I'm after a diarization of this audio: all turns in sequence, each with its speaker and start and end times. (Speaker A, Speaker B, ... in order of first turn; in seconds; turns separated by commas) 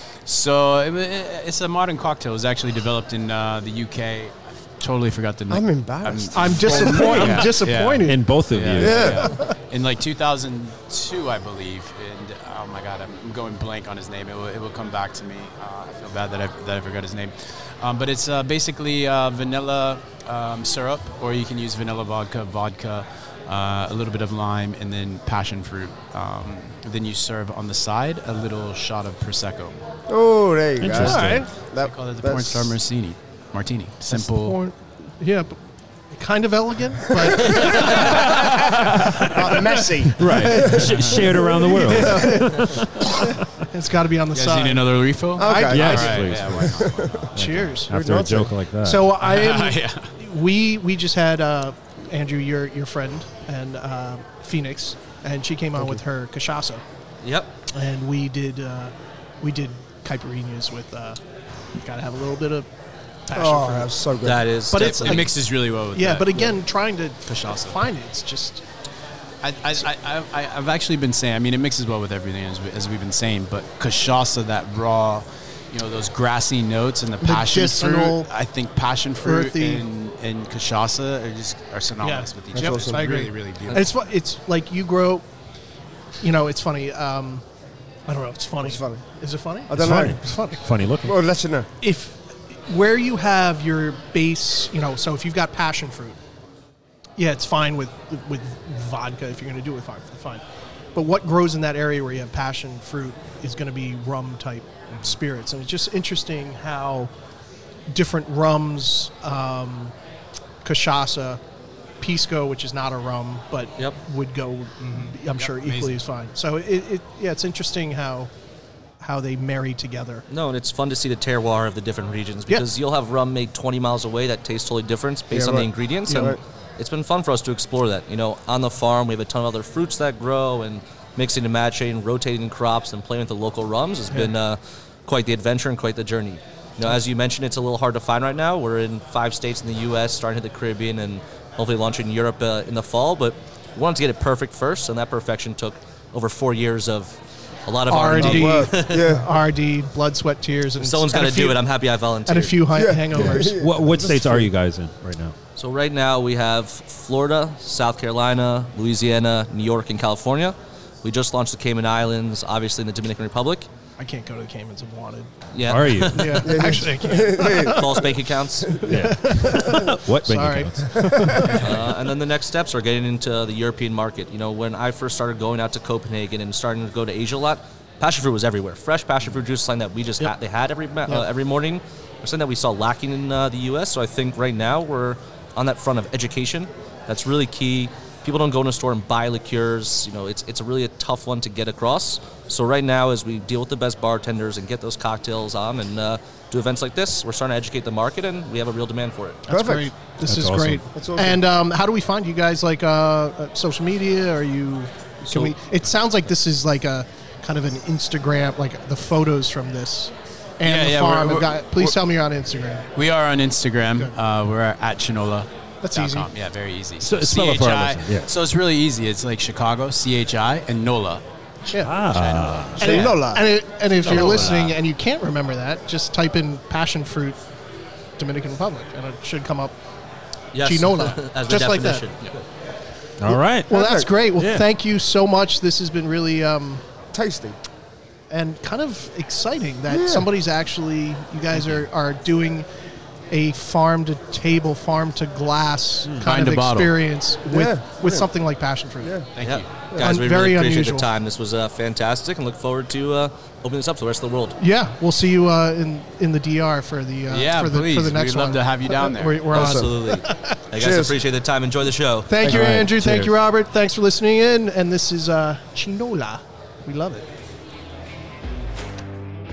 Speaker A: 0.3-29.8, Speaker B: 5.5-7.5, Speaker C: 6.3-8.2, Speaker D: 7.0-7.5, Speaker D: 8.1-9.2, Speaker B: 8.8-9.4, Speaker C: 9.2-9.5, Speaker B: 30.1-32.8, Speaker D: 30.8-31.5, Speaker C: 31.0-31.5, Speaker A: 31.8-34.6, Speaker C: 34.1-35.6, Speaker C: 36.1-39.9, Speaker D: 37.7-43.4, Speaker B: 39.2-42.4, Speaker A: 40.2-41.2, Speaker C: 41.7-46.1, Speaker A: 44.3-47.2, Speaker B: 45.4-47.3, Speaker D: 45.6-49.1, Speaker C: 47.4-47.9, Speaker B: 47.9-48.5, Speaker C: 48.8-56.8, Speaker A: 49.2-50.1, Speaker E: 57.2-57.5, Speaker C: 57.7-61.2, Speaker C: 61.8-62.7, Speaker C: 63.3-63.9, Speaker B: 63.4-64.5, Speaker E: 64.2-65.3, Speaker C: 64.7-68.6, Speaker A: 64.7-66.6, Speaker A: 67.2-67.8, Speaker A: 69.4-83.9, Speaker C: 77.2-78.3, Speaker C: 79.2-79.8, Speaker C: 82.0-85.2, Speaker B: 82.5-83.2, Speaker C: 86.2-87.4, Speaker C: 88.1-90.6, Speaker B: 88.6-89.0, Speaker B: 89.7-90.2, Speaker D: 89.7-91.2, Speaker B: 91.0-91.7, Speaker C: 91.8-96.2, Speaker C: 97.2-100.4, Speaker C: 101.0-107.1, Speaker C: 107.9-109.9, Speaker C: 110.6-111.4, Speaker C: 112.0-118.3, Speaker A: 114.8-116.0, Speaker C: 119.0-120.2, Speaker E: 120.3-147.2, Speaker B: 125.3-126.4, Speaker C: 126.1-126.4, Speaker E: 147.7-149.1, Speaker C: 147.9-151.6, Speaker B: 148.2-149.3, Speaker E: 150.8-152.6, Speaker C: 152.3-153.6, Speaker B: 152.7-154.5, Speaker D: 153.1-155.3, Speaker E: 155.6-163.7, Speaker C: 164.0-165.3, Speaker E: 165.5-166.4, Speaker D: 165.7-166.7, Speaker C: 166.0-168.1, Speaker B: 166.4-169.8, Speaker E: 167.4-168.8, Speaker C: 168.8-171.7, Speaker D: 168.9-171.6, Speaker B: 171.1-171.6, Speaker E: 171.6-199.4, Speaker C: 199.5-212.9, Speaker B: 199.5-199.9, Speaker D: 200.3-200.8, Speaker B: 200.9-201.4, Speaker E: 205.3-205.6, Speaker A: 210.6-212.0, Speaker A: 213.0-221.2, Speaker C: 215.8-216.3, Speaker D: 217.0-218.3, Speaker D: 221.8-223.0, Speaker A: 222.1-223.2, Speaker C: 222.8-227.4, Speaker B: 222.8-223.4, Speaker A: 224.0-224.8, Speaker C: 228.2-229.8, Speaker E: 230.5-232.4, Speaker C: 230.6-232.0, Speaker D: 233.2-233.7, Speaker B: 233.7-234.1, Speaker C: 233.7-236.8, Speaker D: 234.3-234.7, Speaker B: 237.1-237.6, Speaker C: 238.3-242.7, Speaker B: 239.9-240.3, Speaker C: 243.3-249.2, Speaker A: 246.2-247.0, Speaker B: 247.5-248.3, Speaker A: 249.4-249.7, Speaker E: 249.4-254.6, Speaker C: 250.0-251.1, Speaker C: 254.6-260.6, Speaker A: 257.3-259.7, Speaker E: 259.5-262.3, Speaker B: 260.8-261.1, Speaker C: 262.3-267.2, Speaker D: 262.4-263.3